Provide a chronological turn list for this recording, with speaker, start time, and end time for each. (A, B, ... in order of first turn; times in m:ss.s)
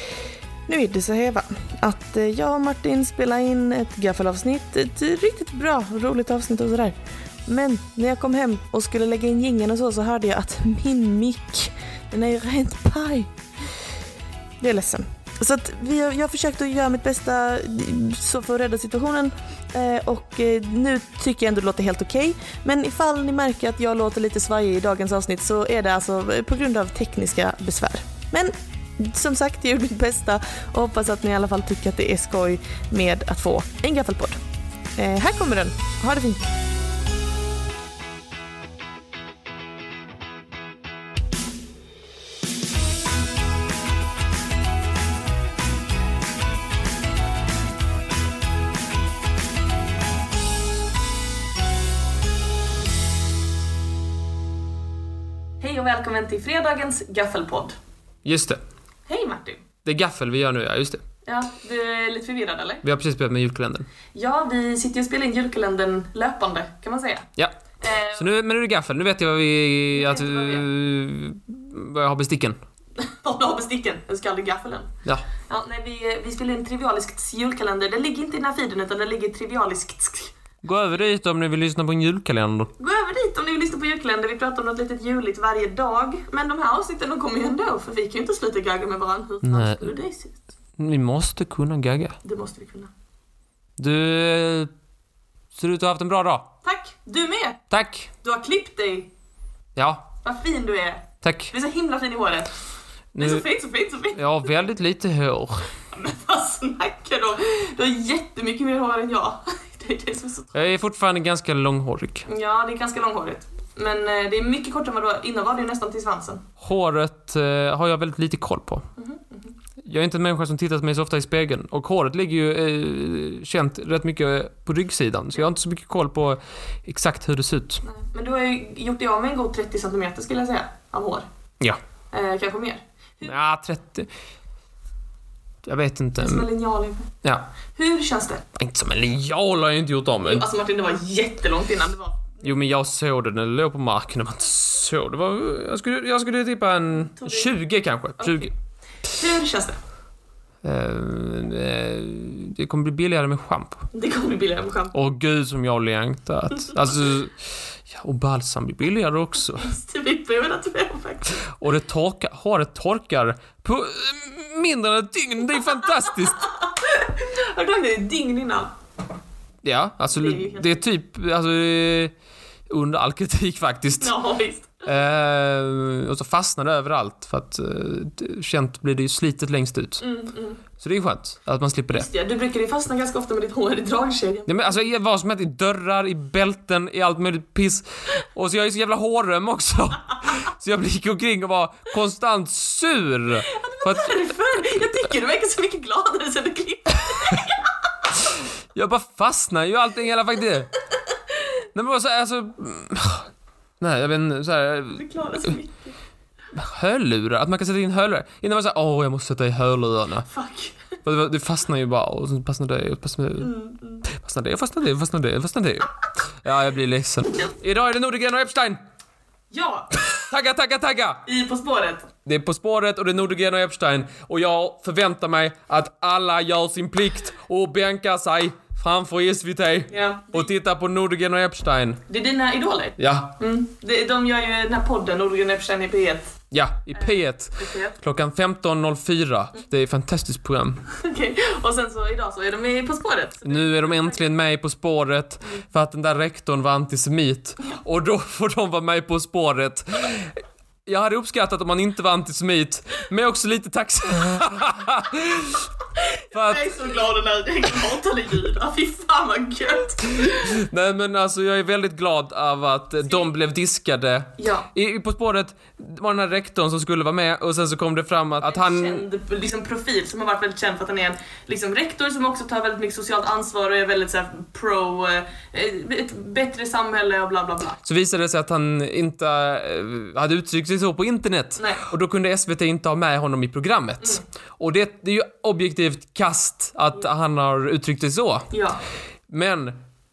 0:00.7-0:13.3 A
0:14.6-0:34.4 A
0:35.0-0:36.5 A
0:55.6-0:57.8 A
0:58.2-0:58.6 B
0:59.1-0:59.6 A
0:59.8-1:01.0 B
1:01.2-1:02.8 A
1:02.8-1:03.9 B
1:04.1-1:07.3 A
1:07.8-1:08.3 A
1:08.2-1:12.6 B
1:09.9-1:10.7 A
1:13.0-1:14.9 A
1:15.5-1:20.3 A
1:20.6-1:22.7 B
1:22.8-1:30.4 A
1:29.4-1:29.9 B
1:30.8-1:32.2 B
1:32.2-1:32.9 A
1:33.8-1:34.7 B
1:35.6-1:36.5 B
1:36.6-1:37.6 A
1:37.7-1:38.1 B
1:38.2-1:39.1 A
1:39.8-1:40.1 B
1:40.2-1:42.5 A
1:41.2-1:41.5 B
1:43.1-1:43.5 B
1:43.2-1:44.2 A
1:44.2-1:45.7 B
1:45.9-1:50.8 A
1:50.5-1:52.3 B
1:52.3-1:56.4 A
1:56.6-1:58.8 B
1:59.0-1:59.6 A
1:59.8-2:07.8 B
2:07.8-2:11.2 A
2:12.1-2:13.4 A
2:13.2-2:14.1 B
2:15.6-2:16.5 B
2:16.2-2:17.1 A
2:17.8-2:18.4 A
2:18.6-2:20.5 B
2:20.2-2:22.6 A
2:22.4-2:28.5 B
2:27.0-2:27.6 A
2:28.2-2:28.5 A
2:29.1-2:29.8 A
2:30.6-2:33.8 B
2:33.9-2:35.0 A
2:34.9-2:39.7 B
2:39.6-2:41.4 A
2:41.6-2:46.4 B
2:46.1-2:48.7 A
2:49.6-2:52.1 B
2:50.1-2:50.8 A
2:52.7-2:54.2 B
2:54.0-2:55.0 A
2:54.9-3:00.0 B
3:00.0-3:00.6 A
3:00.8-3:02.1 B
3:01.9-3:04.8 A
3:04.5-3:14.2 B
3:13.4-3:17.7 A
3:18.8-3:20.7 B
3:21.7-3:23.3 B
3:23.8-3:25.1 B
3:25.0-3:26.0 A
3:26.5-3:30.3 B
3:30.3-3:30.9 A
3:31.0-3:33.5 B
3:33.4-3:34.1 A
3:34.1-3:35.9 B
3:36.4-3:38.8 B
3:39.5-3:39.9 A
3:39.9-3:41.2 B
3:41.2-3:42.1 A
3:42.3-3:52.0 B
3:49.9-3:50.5 A
3:52.1-3:56.4 A
3:53.0-3:53.3 B
3:56.5-4:00.8 B
3:56.9-3:58.0 A
4:00.9-4:04.3 A
4:03.4-4:15.7 B
4:16.2-4:20.6 A
4:16.3-4:16.8 B
4:20.2-4:29.0 B
4:23.0-4:23.3 A
4:24.4-4:24.7 A
4:28.4-4:37.8 A
4:37.8-4:48.5 B
4:41.6-4:41.9 A
4:48.5-4:48.8 A
4:49.3-4:49.8 B